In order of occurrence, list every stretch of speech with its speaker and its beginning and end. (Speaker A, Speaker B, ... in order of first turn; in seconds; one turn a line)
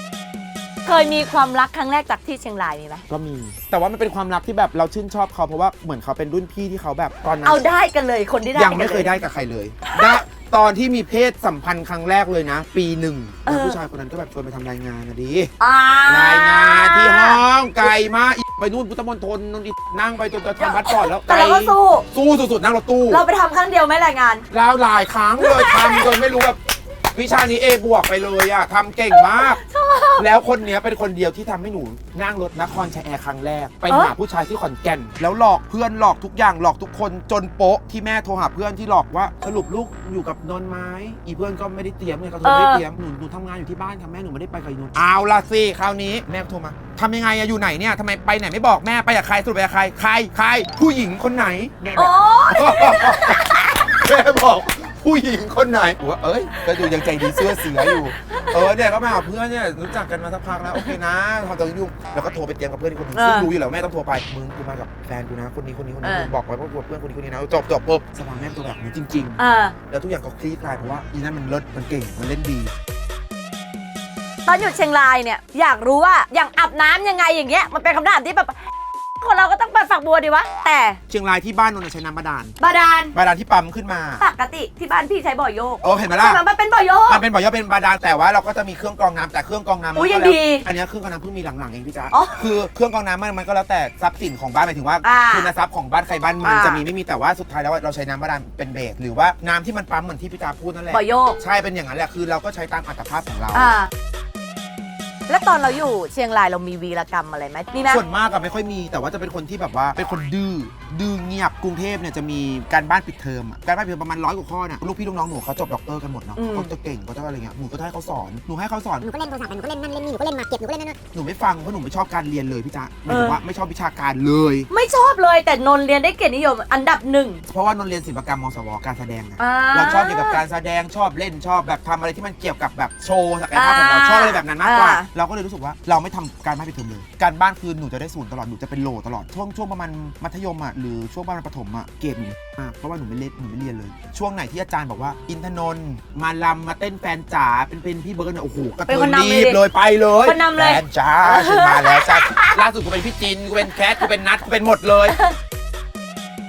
Speaker A: 0.8-3.0
Speaker B: 3.1-7.7
Speaker A: 7.4-9.1
Speaker B: 8.5-15.5
Speaker A: 9.8-10.2
Speaker A: 13.4-13.8
Speaker A: 15.6-17.4
Speaker B: 16.1-23.2
Speaker A: 20.6-22.0
Speaker A: 23.1-24.4
Speaker B: 24.5-26.6
Speaker A: 25.4-26.2
Speaker B: 27.1-29.6
Speaker A: 29.1-30.3
Speaker B: 30.1-72.7
Speaker A: 33.9-34.1
Speaker A: 42.4-42.8
Speaker A: 51.9-53.6
Speaker A: 56.6-58.8
Speaker A: 63.1-63.5
Speaker A: 66.0-66.3
Speaker A: 69.4-69.8
Speaker A: 74.5-78.6
Speaker A: 79.2-81.0
Speaker B: 81.1-82.5
Speaker A: 82.6-83.2
Speaker B: 83.1-84.2
Speaker A: 84.2-87.2
Speaker B: 85.8-86.4
Speaker B: 87.1-103.7
Speaker A: 89.9-90.7
Speaker A: 92.1-92.4
Speaker A: 95.0-95.5
Speaker A: 96.4-96.8
Speaker A: 100.9-101.4
Speaker A: 103.5-103.9
Speaker A: 105.3-108.0
Speaker B: 107.8-119.1
Speaker A: 116.3-116.7
Speaker C: 119.0-121.0
Speaker B: 121.1-124.7
Speaker A: 123.1-123.4
Speaker A: 124.7-127.4
Speaker B: 127.5-155.2
Speaker A: 129.4-130.4
Speaker A: 133.5-135.1
Speaker A: 148.9-149.6
Speaker A: 150.2-152.6
Speaker A: 153.6-154.0
Speaker A: 155.1-155.3